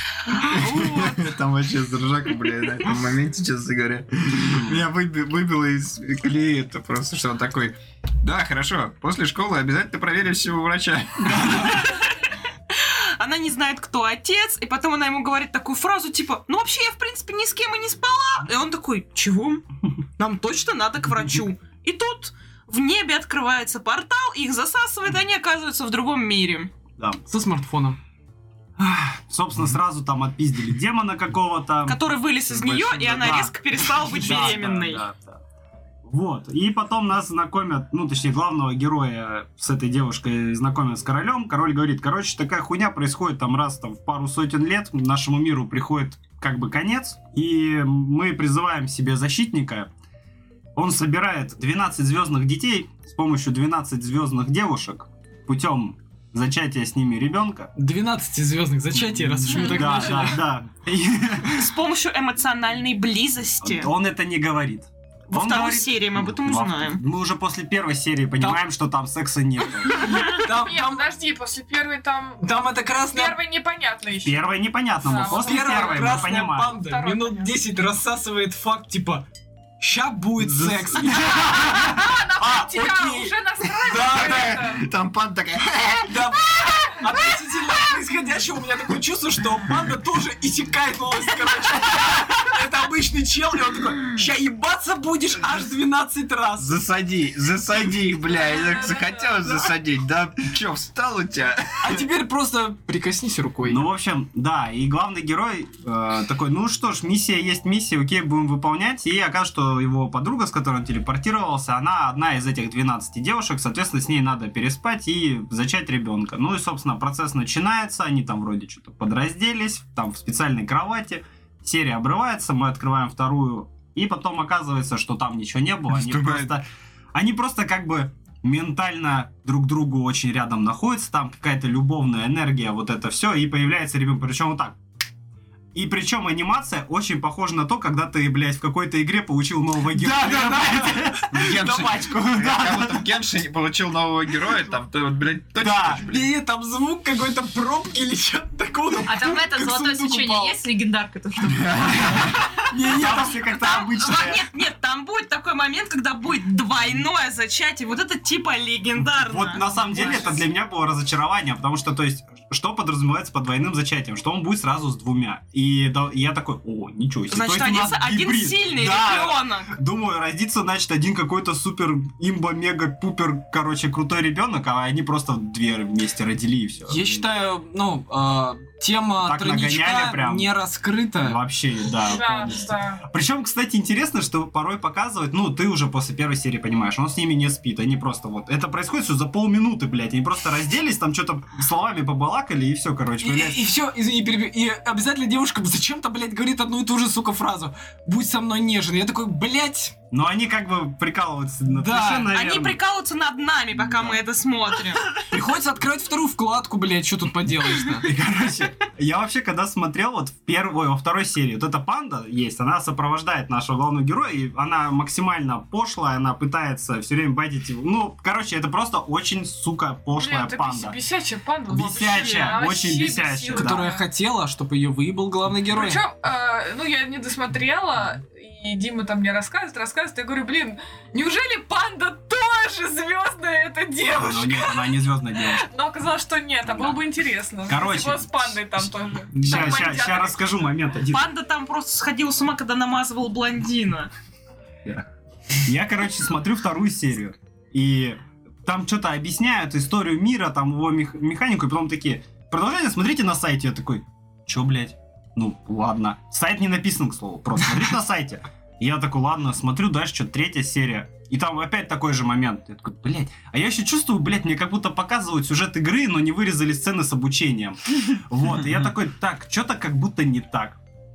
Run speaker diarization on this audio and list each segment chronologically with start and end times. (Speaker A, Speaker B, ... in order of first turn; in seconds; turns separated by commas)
Speaker A: 0.5-12.0, Speaker B: 0.6-1.2, Speaker B: 12.7-19.6, Speaker B: 20.2-26.7, Speaker C: 27.2-28.0, Speaker D: 28.8-32.0, Speaker B: 31.9-35.0, Speaker A: 32.5-33.5, Speaker D: 33.0-35.4, Speaker D: 36.0-49.9, Speaker D: 50.7-57.7, Speaker C: 57.8-60.4, Speaker D: 59.0-61.7, Speaker E: 59.5-60.2, Speaker B: 61.5-63.9, Speaker D: 63.6-70.2, Speaker B: 65.3-67.0, Speaker C: 68.4-68.6, Speaker C: 70.1-71.0, Speaker E: 70.2-74.4, Speaker C: 72.4-73.4, Speaker D: 74.2-76.8, Speaker E: 75.0-77.5, Speaker C: 75.3-79.3, Speaker C: 79.8-84.5, Speaker D: 80.4-81.9, Speaker E: 81.4-84.9, Speaker A: 84.1-86.2, Speaker C: 86.0-96.8, Speaker A: 96.6-102.0, Speaker E: 98.3-99.4, Speaker C: 101.8-103.8, Speaker D: 103.6-134.8, Speaker A: 125.9-126.5, Speaker D: 135.7-143.1, Speaker C: 139.9-141.8, Speaker A: 141.3-146.3, Speaker D: 145.6-146.0, Speaker C: 146.0-150.6, Speaker F: 149.0-152.2, Speaker A: 151.4-152.5, Speaker C: 152.6-153.4, Speaker D: 152.8-154.5, Speaker B: 153.4-160.4, Speaker D: 159.1-177.2, Speaker B: 167.3-169.8, Speaker C: 176.9-181.4, Speaker D: 179.2-180.5, Speaker D: 181.2-193.6, Speaker E: 182.0-183.0, Speaker C: 193.2-199.9, Speaker D: 200.1-202.8, Speaker C: 201.7-202.3, Speaker B: 202.3-205.2, Speaker D: 203.8-204.2, Speaker C: 205.2-208.1, Speaker D: 207.9-221.0, Speaker E: 220.2-224.0, Speaker D: 221.7-223.9, Speaker C: 223.5-226.0, Speaker E: 225.7-234.9, Speaker D: 234.1-235.7, Speaker E: 235.4-240.7, Speaker D: 236.7-237.0, Speaker D: 237.7-241.3, Speaker B: 241.1-244.1, Speaker D: 245.6-270.8